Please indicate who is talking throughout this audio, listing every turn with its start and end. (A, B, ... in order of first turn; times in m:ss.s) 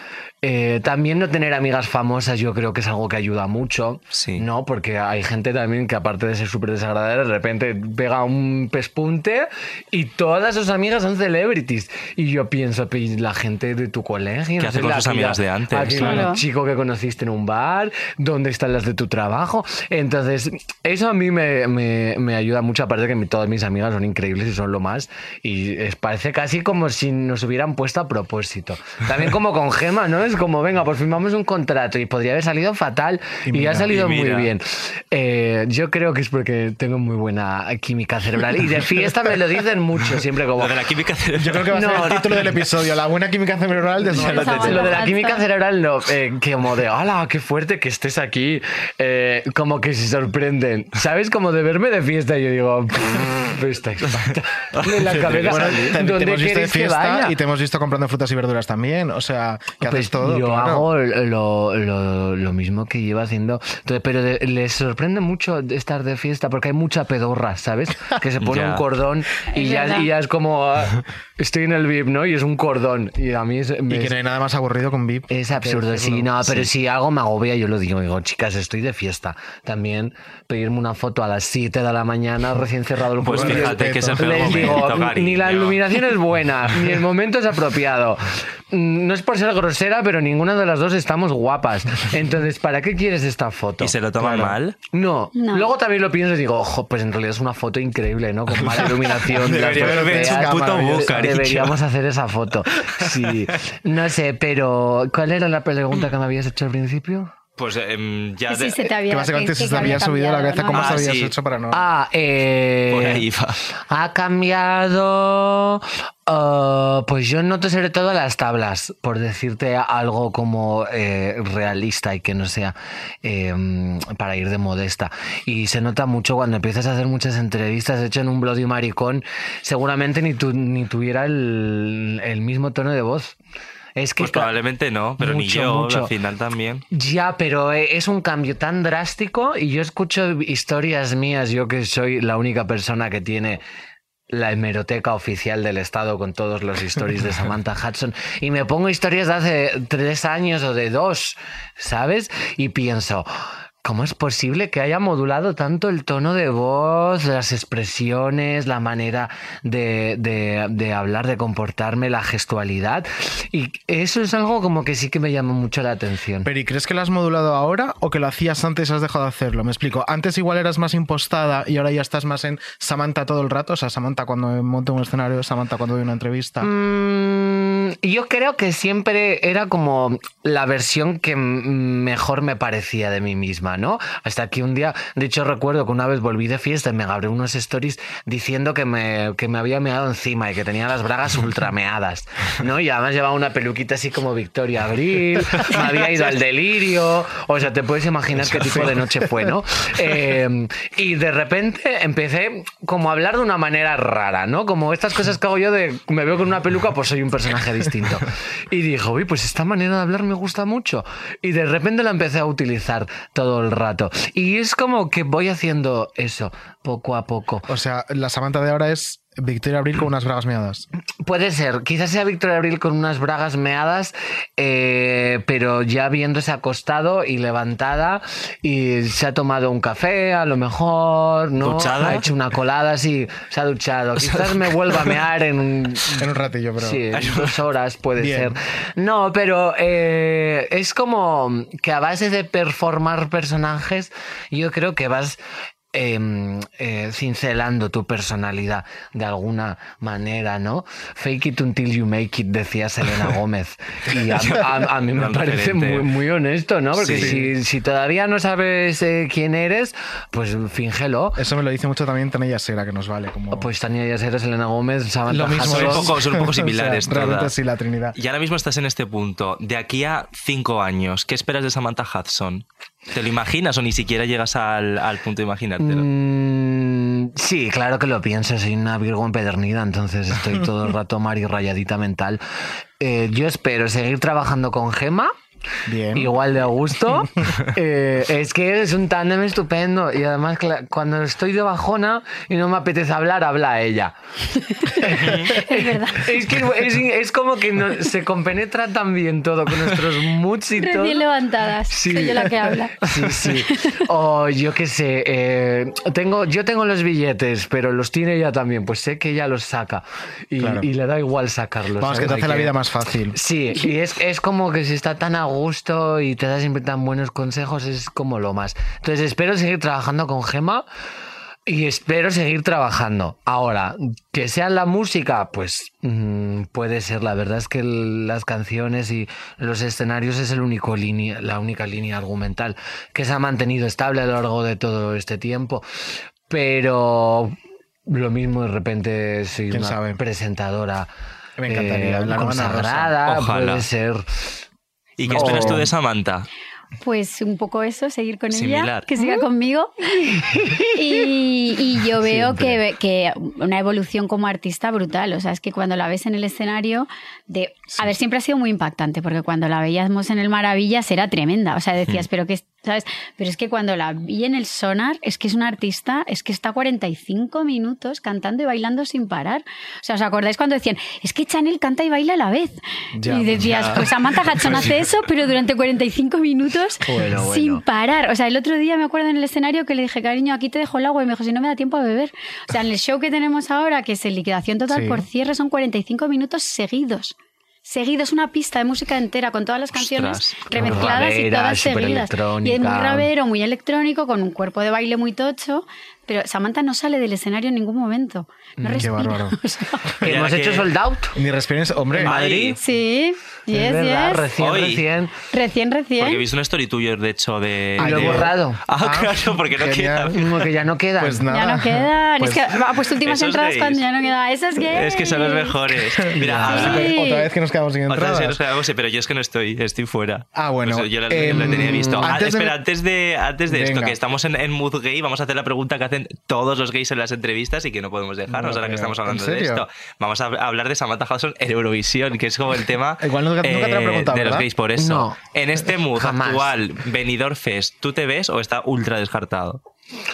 0:00.4-0:40.9 A
0:04.1-0:04.4 B
0:14.6-0:16.3 B
0:16.0-0:16.4 C
0:33.4-0:33.9 D
0:33.9-0:34.5 B
0:40.6-0:42.4 B
0:41.4-0:45.0 D
0:41.7-0:42.5 A
0:44.1-0:45.4 C
0:44.1-0:57.4 A
0:54.8-0:55.9 B
0:55.2-1:00.9 D
0:59.8-1:14.1 A
1:08.4-1:08.8 B
1:09.5-1:10.1 C
1:13.9-1:16.5 D
1:15.3-1:33.9 A
1:23.2-1:25.0 D
1:23.2-1:25.8 B
1:33.8-1:34.8 B
1:34.2-1:34.5 D
1:34.9-1:47.3 A
1:35.3-1:35.7 C
1:38.6-1:41.8 B
1:39.4-1:41.4 D
1:47.6-1:48.9 B
1:48.5-1:51.0 C
1:49.1-1:51.9 D
1:50.7-1:51.3 B
1:51.7-1:53.2 A
1:52.9-1:53.6 B
1:53.8-2:13.4 A
2:14.0-2:14.5 A
2:14.2-2:16.8 B
2:15.2-2:16.1 A
2:16.9-2:23.6 A
2:24.3-2:33.3 A
2:33.8-2:46.5 A
2:46.4-2:56.7 D
2:56.6-3:37.7 A
3:18.5-3:19.0 B
3:37.7-3:40.9 D
3:41.2-3:56.2 A
3:51.6-3:52.3 B
3:54.2-3:55.1 B
3:56.2-3:57.1 D
3:56.8-4:05.4 A
3:57.1-3:57.6 B
3:58.2-3:58.6 D
4:05.9-4:21.4 A
4:14.2-4:16.1 B
4:16.9-4:17.4 B
4:17.1-4:17.5 D
4:21.4-4:23.7 D
4:23.5-4:26.1 A
4:25.3-4:28.2 D
4:25.6-4:27.5 B
4:28.1-4:36.0 B
4:35.8-4:42.4 A
4:43.0-4:45.3 A
4:45.8-4:46.3 D
4:46.1-4:54.1 A
4:54.8-4:56.3 C
4:54.8-5:01.2 A
4:55.2-4:55.5 B
5:00.8-5:03.0 C
5:01.9-5:12.8 A
5:03.7-5:04.0 C
5:10.6-5:10.9 D
5:12.0-5:13.4 D
5:13.3-5:20.8 A
5:21.6-5:35.9 A
5:36.5-5:37.5 A
5:38.1-5:41.1 A
5:39.7-5:40.2 D
5:41.6-5:43.2 D
5:41.7-5:44.5 A
5:43.2-5:43.8 B
5:45.2-5:46.5 B
5:45.2-5:45.9 D
5:45.3-5:45.9 A
5:47.0-6:40.1 C
5:48.5-5:49.1 B
6:13.1-6:14.9 D
6:17.0-6:17.8 A
6:24.9-6:25.3 D
6:29.9-6:31.0 B
6:30.8-6:33.3 A
6:38.8-6:39.1 A
6:39.0-6:39.6 D
6:40.2-6:41.4 A
6:40.2-6:40.9 B
6:41.3-6:42.4 D
6:42.2-6:42.8 A
6:42.2-6:42.8 B
6:42.8-6:44.5 C
6:43.7-6:45.3 A
6:44.6-6:45.0 B
6:45.5-6:46.4 C
6:46.2-6:50.7 B
6:48.0-6:50.4 D
6:48.0-6:48.8 A
6:50.3-6:51.4 A
6:51.2-6:52.7 D
6:51.5-6:55.8 C
6:53.2-6:54.0 B
6:54.9-6:57.2 B
6:56.2-6:58.6 D
6:56.5-6:56.8 A
6:56.7-6:57.5 C
6:58.1-7:19.8 B
7:00.5-7:02.8 D
7:03.7-7:04.2 D
7:08.5-7:09.8 D
7:13.2-7:14.7 D
7:15.0-7:15.4 A
7:16.1-7:16.7 A